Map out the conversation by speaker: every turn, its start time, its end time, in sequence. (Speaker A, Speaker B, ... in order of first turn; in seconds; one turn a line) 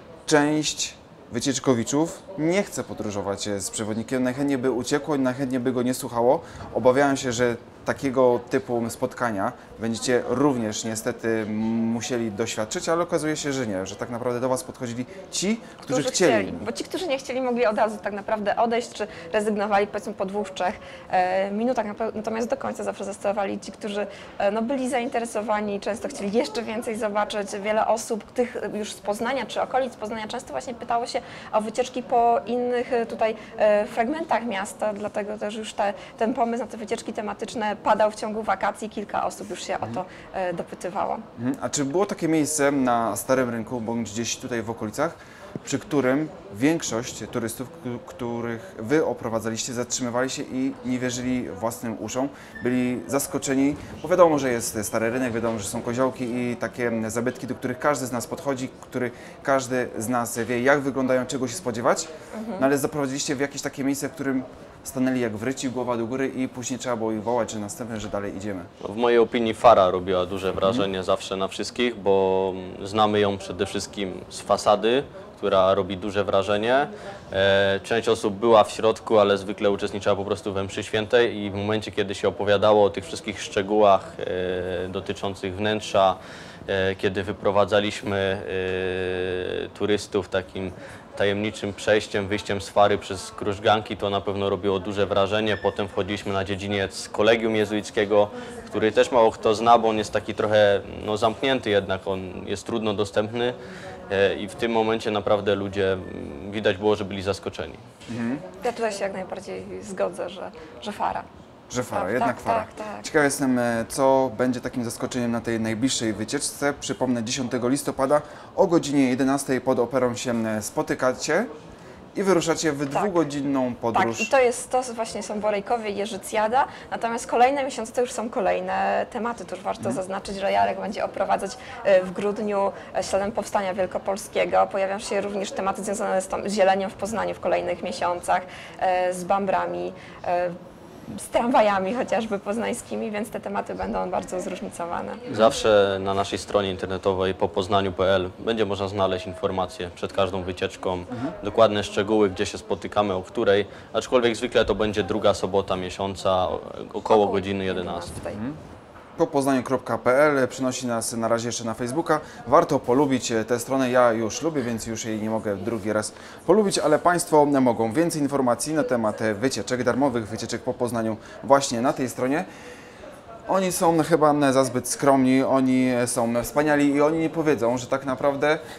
Speaker A: 0.3-16.7
Speaker B: 15.8-41.2
Speaker A: 41.4-68.7
Speaker B: 62.3-62.7
Speaker C: 68.8-103.6
Speaker C: 104.1-107.8
Speaker A: 108.1-108.5
Speaker B: 108.6-111.2
Speaker A: 111.7-121.5
Speaker B: 111.9-113.1
Speaker A: 122.2-124.3
Speaker B: 122.9-123.2
Speaker B: 123.9-140.6
Speaker B: 141.1-145.2
Speaker C: 145.3-158.2
Speaker B: 157.1-158.4
Speaker A: 159.2-172.5
Speaker A: 173.5-178.6